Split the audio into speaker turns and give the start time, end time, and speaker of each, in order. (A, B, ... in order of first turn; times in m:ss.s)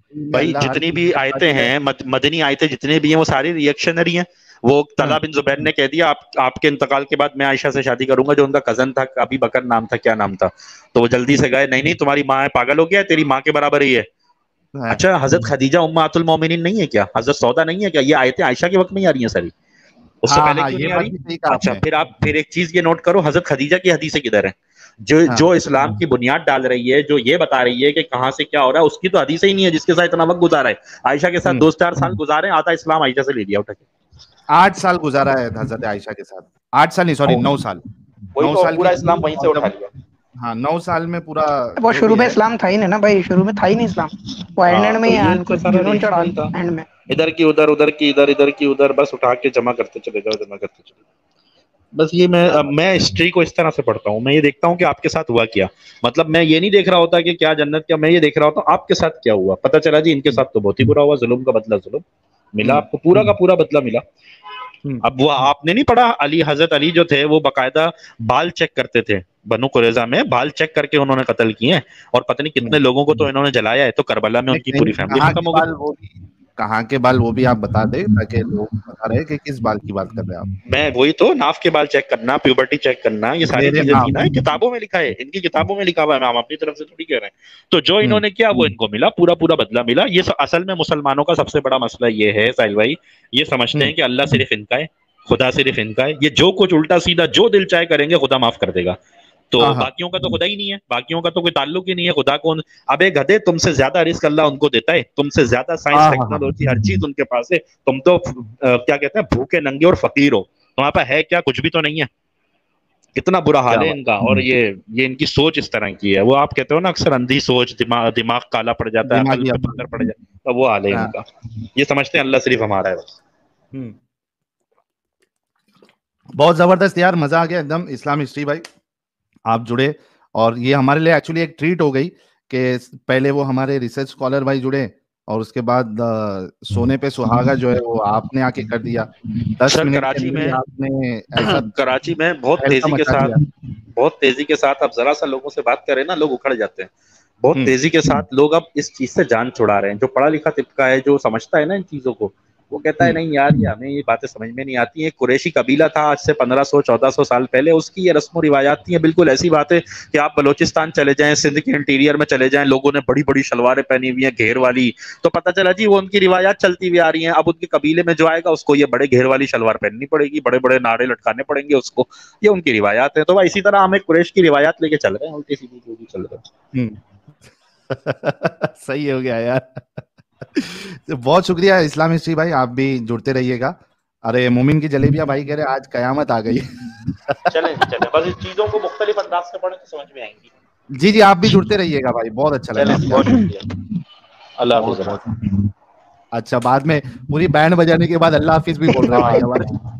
0:00.1-0:01.7 A
0:00.3-0:14.0 B
0:14.9-0:19.5 B
0:20.2-0:33.8 B
0:20.3-0:21.8 A
0:34.5-0:37.8 A
0:38.3-0:39.9 B
0:38.4-0:39.7 A
0:40.4-0:42.4 A
0:41.8-0:46.9 C
0:44.7-0:46.5 B
0:47.1-0:51.0 B
0:51.9-1:04.0 B
1:02.6-1:03.3 A
1:05.0-1:15.6 B
1:14.5-1:20.5 A
1:20.6-1:39.0 B
1:23.5-1:24.3 A
1:28.0-1:28.7 A
1:39.5-1:52.1 B
1:39.6-1:39.9 A
1:45.9-1:47.0 A
1:53.2-2:01.2 B
1:53.7-1:54.4 A
1:59.0-2:00.1 A
2:01.8-2:03.2 B
2:06.4-2:08.6 A
2:09.5-2:21.7 A
2:19.7-2:20.6 B
2:21.4-2:23.3 B
2:22.6-2:23.4 A
2:23.9-2:26.9 B
2:27.4-2:56.5 B
2:57.9-3:07.5 A
3:07.5-3:10.5 B
3:11.0-3:13.5 A
3:12.7-3:13.6 B
3:14.6-3:15.2 B
3:14.7-3:15.3 A
3:16.3-3:19.7 A
3:18.9-3:19.4 C
3:19.1-3:19.6 B